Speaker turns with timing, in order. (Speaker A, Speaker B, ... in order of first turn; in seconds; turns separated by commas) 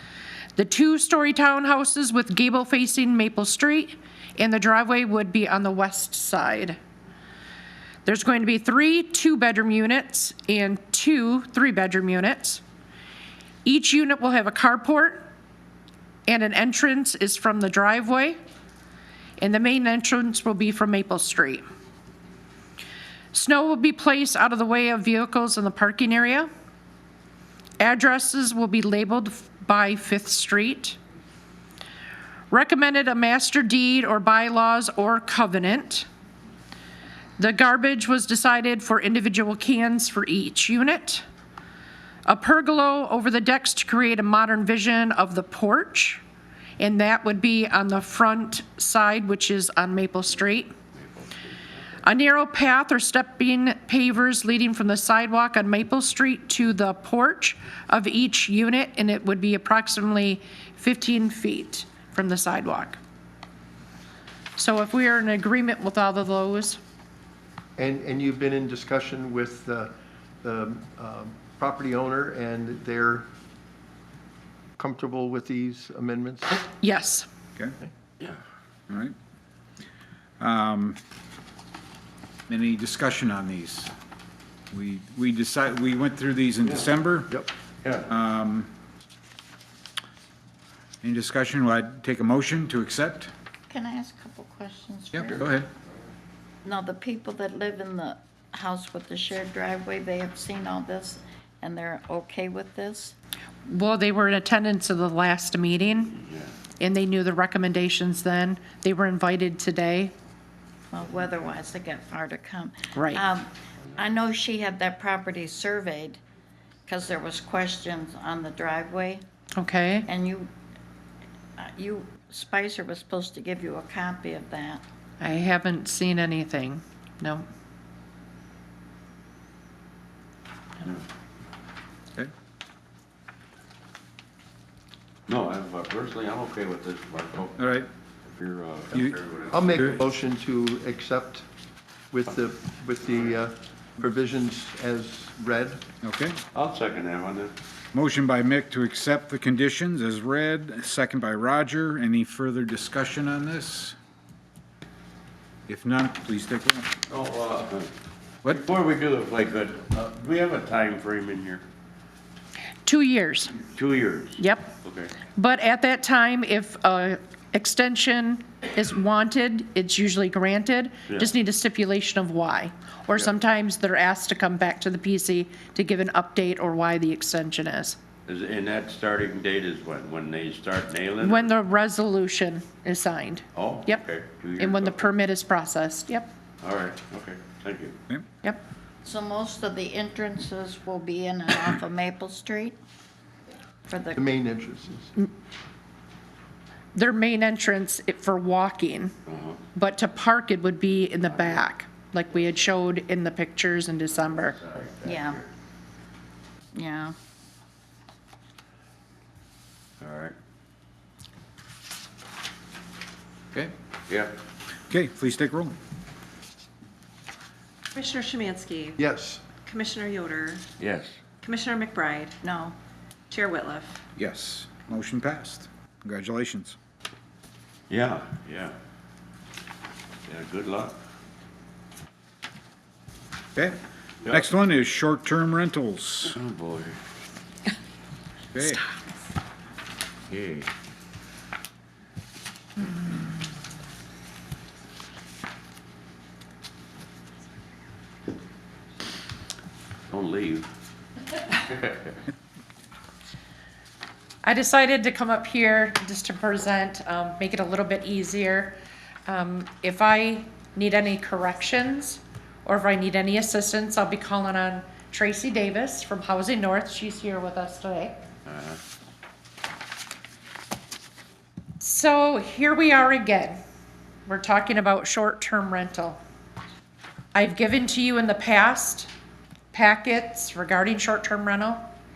Speaker A: 0.6-6.8, Speaker A: 8.0-12.6, Speaker A: 13.6-15.2, Speaker A: 16.3-18.4, Speaker A: 19.4-21.6, Speaker A: 23.3-26.5, Speaker A: 27.8-31.0, Speaker A: 32.5-36.1, Speaker A: 37.4-41.2, Speaker A: 42.2-46.2, Speaker A: 46.8-50.7, Speaker B: 51.0-51.8, Speaker A: 52.0-63.0, Speaker A: 64.6-66.8, Speaker C: 67.8-73.3, Speaker C: 74.8-76.6, Speaker A: 76.8-77.2, Speaker D: 80.4-81.0, Speaker D: 82.5-83.9, Speaker D: 84.7-87.4, Speaker B: 87.8-88.1, Speaker D: 88.1-88.7, Speaker D: 91.0-93.3, Speaker E: 93.7-95.5, Speaker D: 95.1-95.7, Speaker E: 96.6-103.2, Speaker A: 103.7-106.1, Speaker B: 106.2-106.5, Speaker A: 106.8-110.1, Speaker E: 110.9-116.2, Speaker A: 112.9-113.2, Speaker E: 116.9-119.2, Speaker A: 119.6-120.1, Speaker E: 120.0-120.5, Speaker E: 121.6-124.8, Speaker A: 125.2-127.4, Speaker B: 135.3-137.6, Speaker D: 137.6-137.9, Speaker B: 138.2-139.9, Speaker C: 139.5-141.4, Speaker C: 142.1-145.8, Speaker D: 146.0-146.4, Speaker B: 146.5-147.5, Speaker D: 147.9-153.9, Speaker D: 155.7-156.9, Speaker B: 157.1-157.9, Speaker B: 158.4-161.6, Speaker A: 162.8-163.6, Speaker B: 163.7-165.1, Speaker A: 164.4-164.7, Speaker A: 165.3-178.0, Speaker B: 171.1-171.3, Speaker B: 178.3-181.5, Speaker A: 181.2-184.0, Speaker B: 183.5-185.1, Speaker A: 184.6-186.3, Speaker B: 186.6-188.0, Speaker E: 189.0-192.8, Speaker E: 193.9-194.2, Speaker C: 194.1-195.1, Speaker A: 196.9-199.1, Speaker B: 199.3-199.6, Speaker A: 199.7-204.6, Speaker B: 204.3-205.5, Speaker E: 205.0-205.4, Speaker E: 206.7-207.2, Speaker B: 210.0-210.3, Speaker B: 214.1-214.3, Speaker D: 214.9-215.8, Speaker F: 217.9-219.0, Speaker C: 219.0-219.4, Speaker F: 219.6-220.7, Speaker B: 220.8-221.2, Speaker F: 221.4-222.3, Speaker E: 222.4-222.8, Speaker F: 223.3-224.0, Speaker D: 224.2-226.8, Speaker B: 227.9-228.7, Speaker B: 230.3-230.9, Speaker D: 233.5-236.3, Speaker B: 236.3-237.0, Speaker D: 238.5-238.8, Speaker B: 240.3-240.7, Speaker B: 250.1-250.7, Speaker B: 251.5-252.2, Speaker A: 254.4-268.2, Speaker B: 268.5-268.8, Speaker A: 271.8-273.6, Speaker A: 274.2-276.2, Speaker A: 277.3-279.1, Speaker A: 279.7-281.9